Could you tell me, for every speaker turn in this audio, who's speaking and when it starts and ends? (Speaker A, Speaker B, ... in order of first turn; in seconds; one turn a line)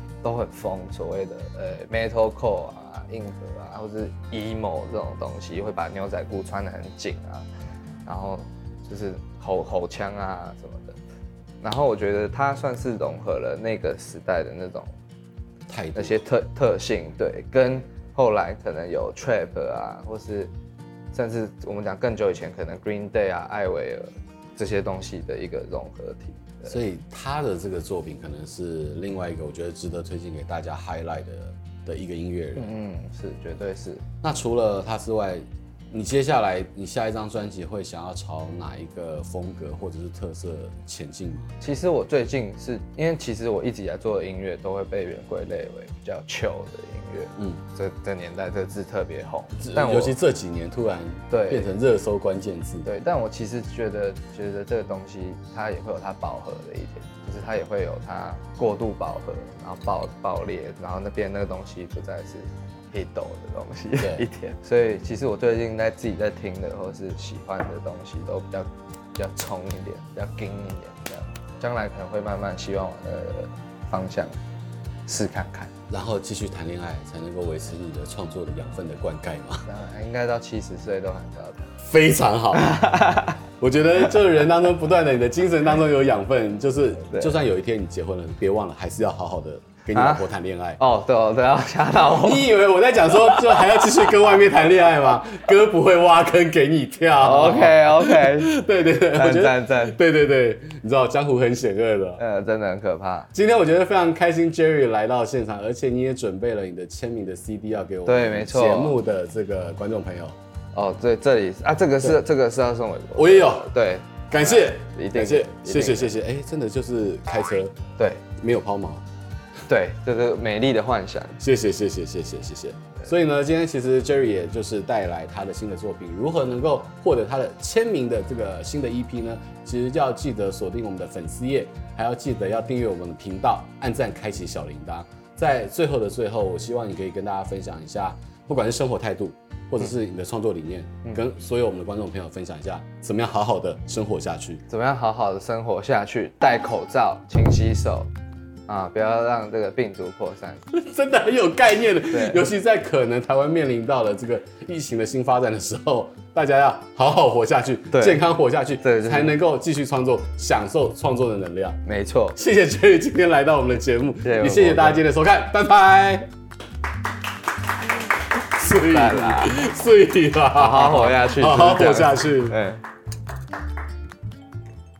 Speaker A: 0.2-7.5
Speaker A: 8.1-11.0
Speaker A: 11.6-14.9
Speaker B: 15.7-16.2
Speaker A: 15.9-20.5
Speaker A: 21.1-26.8
Speaker B: 26.6-32.7
Speaker A: 32.6-34.0
Speaker B: 34.2-41.5
Speaker A: 41.6-50.2
Speaker B: 49.6-52.9
Speaker A: 51.3-51.7
Speaker A: 52.9-74.4
Speaker B: 64.0-64.2
Speaker A: 75.1-75.7
Speaker B: 75.9-79.7
Speaker A: 79.7-81.7
Speaker B: 81.8-82.9
Speaker A: 82.5-83.4
Speaker B: 83.6-90.8
Speaker A: 87.1-87.4
Speaker A: 89.9-94.4
Speaker B: 92.2-102.2
Speaker A: 97.2-100.0
Speaker A: 102.2-103.3
Speaker B: 103.3-110.4
Speaker A: 108.0-109.0
Speaker A: 110.7-116.1
Speaker B: 113.2-113.7
Speaker B: 114.3-117.8
Speaker A: 118.0-118.2
Speaker B: 118.4-119.0
Speaker A: 119.7-121.4
Speaker B: 121.4-144.6
Speaker A: 144.7-148.1
Speaker A: 148.7-150.6
Speaker B: 150.7-161.8
Speaker A: 152.1-152.5
Speaker A: 157.9-158.2
Speaker A: 158.8-159.4
Speaker A: 161.8-162.4
Speaker B: 162.4-166.3
Speaker A: 164.2-165.1
Speaker B: 168.3-172.6
Speaker A: 168.8-169.6
Speaker A: 170.6-172.8